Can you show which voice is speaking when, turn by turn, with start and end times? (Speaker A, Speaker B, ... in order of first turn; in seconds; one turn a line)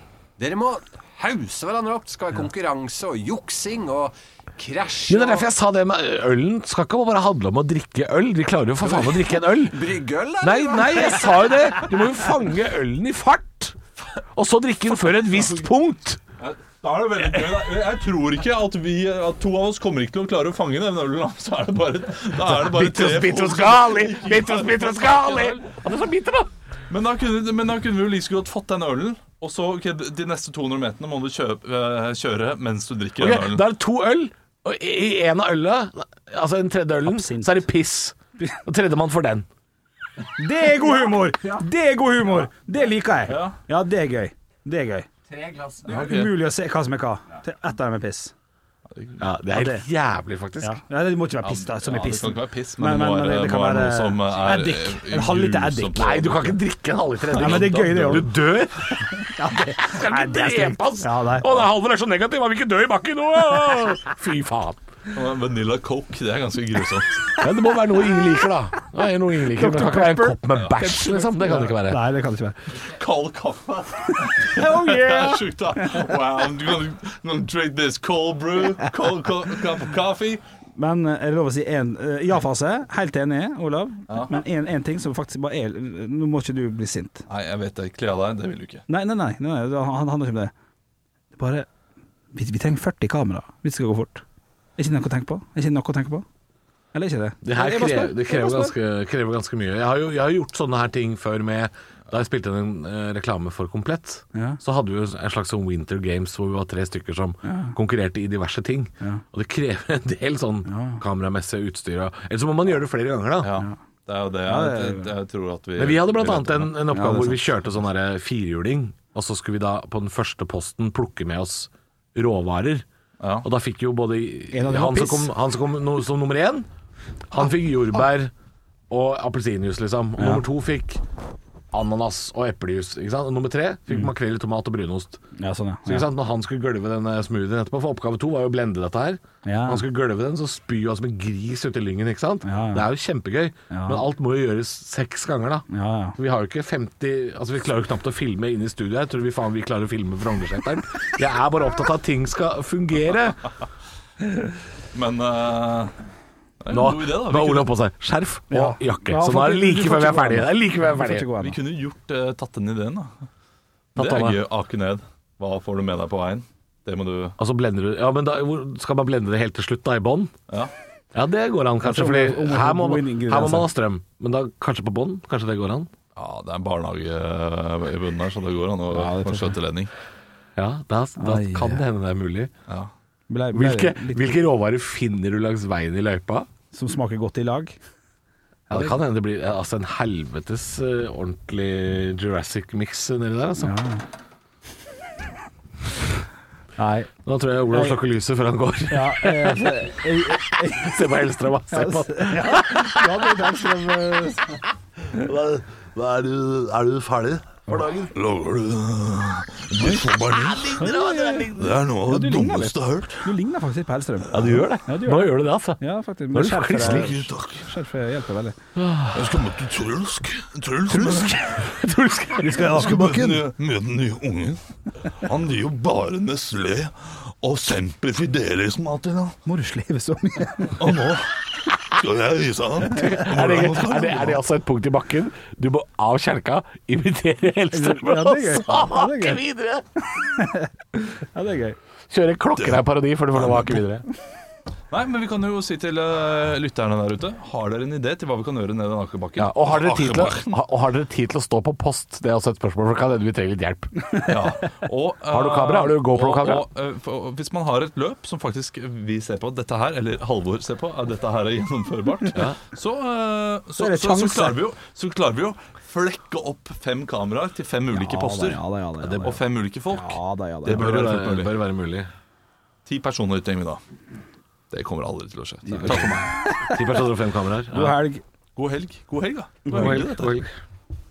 Speaker A: 0.4-5.5
Speaker B: 5.1-9.8
Speaker A: 8.8-11.8
Speaker B: 10.4-13.8
Speaker B: 14.3-16.2
Speaker C: 16.4-25.6
Speaker B: 22.5-26.5
Speaker C: 26.9-33.6
Speaker B: 33.2-39.5
Speaker D: 37.0-37.6
Speaker D: 40.4-45.1
Speaker A: 40.9-41.6
Speaker C: 43.3-43.6
Speaker A: 45.3-46.1
Speaker C: 45.9-46.4
Speaker D: 45.9-48.3
Speaker C: 48.9-49.2
Speaker B: 49.2-50.8
Speaker D: 49.5-49.8
Speaker D: 50.6-56.2
Speaker C: 51.4-56.6
Speaker B: 56.0-59.0
Speaker C: 57.3-58.3
Speaker D: 57.3-58.3
Speaker D: 59.1-61.5
Speaker B: 59.7-64.8
Speaker C: 65.1-67.2
Speaker B: 67.4-72.0
Speaker D: 69.5-72.7
Speaker C: 72.8-80.4
Speaker D: 74.5-75.5
Speaker D: 80.8-87.2
Speaker C: 84.1-84.4
Speaker C: 87.3-88.8
Speaker D: 88.9-90.5
Speaker D: 91.4-91.7
Speaker D: 92.3-94.2
Speaker D: 94.8-96.2
Speaker D: 96.9-98.8
Speaker B: 97.4-113.5
Speaker D: 104.3-104.6
Speaker D: 107.5-107.8
Speaker D: 110.7-111.0
Speaker C: 113.4-117.5
Speaker D: 114.5-115.1
Speaker B: 115.8-122.8
Speaker C: 123.2-123.5
Speaker B: 123.4-126.7
Speaker D: 124.5-125.3
Speaker B: 127.3-128.3
Speaker B: 128.9-131.0
Speaker D: 130.2-130.4
Speaker B: 131.7-135.2
Speaker D: 135.4-136.1
Speaker B: 135.9-153.4
Speaker D: 139.4-139.8
Speaker D: 142.4-142.9
Speaker D: 143.7-144.1
Speaker D: 145.7-146.2
Speaker C: 154.9-155.9
Speaker C: 156.6-157.7
Speaker B: 156.7-161.3
Speaker D: 158.5-161.6
Speaker C: 161.4-163.3
Speaker B: 163.9-164.4
Speaker C: 164.0-167.4
Speaker B: 167.4-170.3
Speaker B: 171.1-175.9
Speaker D: 171.8-173.7
Speaker C: 176.2-179.9
Speaker D: 178.9-179.6
Speaker B: 180.6-182.5
Speaker D: 181.2-181.8
Speaker D: 183.3-184.2
Speaker B: 183.5-186.5
Speaker D: 186.7-187.8
Speaker B: 188.7-193.7
Speaker D: 193.6-194.0
Speaker D: 196.8-197.1
Speaker B: 197.3-199.8
Speaker D: 197.7-198.0
Speaker D: 198.9-201.0
Speaker B: 200.7-203.2
Speaker D: 201.7-204.6
Speaker C: 205.1-213.3
Speaker D: 209.8-210.1
Speaker B: 210.3-211.7
Speaker D: 210.7-218.6
Speaker B: 214.3-215.8
Speaker B: 216.3-217.3
Speaker C: 216.8-217.7
Speaker B: 218.8-219.3
Speaker C: 219.1-221.6
Speaker D: 220.9-221.6
Speaker B: 221.6-222.8
Speaker D: 222.3-223.4
Speaker C: 222.7-224.6
Speaker C: 225.2-229.4
Speaker D: 229.5-230.8
Speaker C: 230.8-231.3
Speaker C: 231.9-234.4
Speaker B: 233.0-239.8
Speaker D: 237.7-239.4
Speaker D: 240.1-240.7
Speaker D: 241.3-241.8
Speaker B: 242.1-244.1
Speaker C: 243.3-243.8
Speaker C: 244.9-250.5
Speaker B: 249.4-254.3
Speaker C: 254.3-271.5
Speaker B: 255.3-256.6
Speaker D: 263.8-264.6
Speaker D: 267.9-270.9
Speaker B: 270.7-272.1
Speaker C: 272.9-273.8
Speaker C: 274.7-276.3
Speaker D: 275.7-277.0
Speaker B: 275.8-278.0
Speaker D: 277.7-278.2
Speaker C: 278.6-280.4
Speaker D: 279.7-280.0
Speaker B: 279.7-280.5